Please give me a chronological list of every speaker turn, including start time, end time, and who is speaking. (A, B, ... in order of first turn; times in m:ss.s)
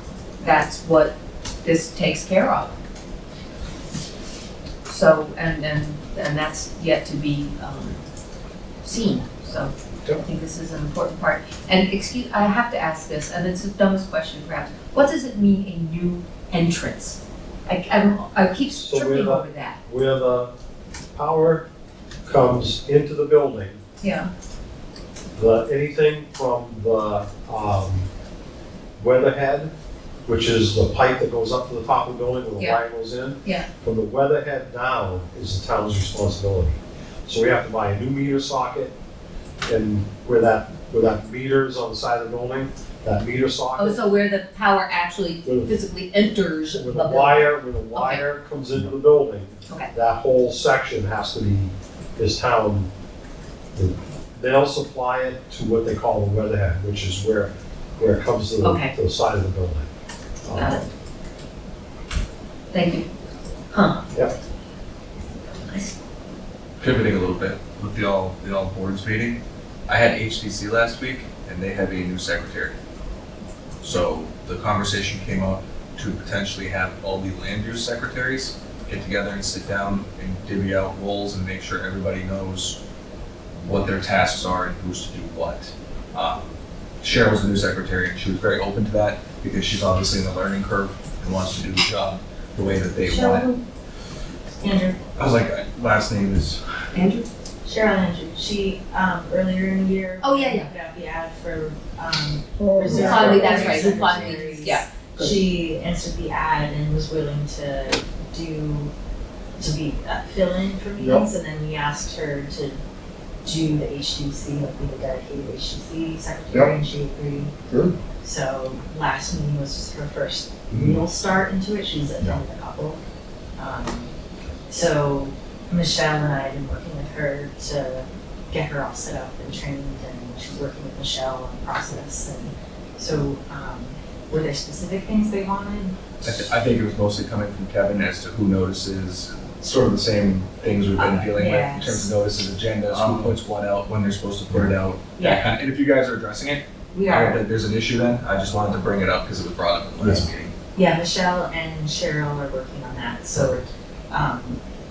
0:00.4-0:02.7 A
0:04.8-0:08.0 A
0:08.8-0:19.8 A
0:18.7-0:20.5 B
0:21.1-0:21.6 B
0:22.2-0:23.8 B
0:24.0-0:24.3 A
0:25.3-0:28.1 B
0:29.0-0:29.7 B
0:30.2-0:38.9 B
0:39.6-0:44.0 B
0:43.8-0:48.2 A
0:45.4-0:45.8 B
0:46.7-0:52.9 B
0:53.7-0:59.9 B
0:58.6-0:58.9 A
1:00.4-1:00.9 B
1:00.5-1:00.8 A
1:02.7-1:03.1 A
1:03.7-1:04.0 A
1:05.5-1:05.9 A
1:06.8-1:12.8 C
1:13.8-1:22.8 C
1:23.6-1:33.4 C
1:33.0-1:33.6 D
1:34.6-1:35.1 D
1:35.2-1:36.6 C
1:36.9-1:37.3 A
1:37.6-1:48.9 D
1:40.2-1:40.7 A
1:42.6-1:44.2 E
1:42.9-1:45.4 A
1:49.6-1:52.8 D
1:51.0-1:51.3 E
1:53.4-1:57.5 D
1:57.7-1:58.0 E
1:58.2-2:03.0 D
2:00.7-2:01.0 E
2:03.6-2:04.1 D
2:04.7-2:16.4 D
2:16.2-2:30.5 C
2:20.9-2:22.1 D
2:22.9-2:23.3 E
2:25.2-2:25.4 D
2:26.9-2:27.4 A
2:30.0-2:30.3 E
2:30.8-2:34.6 D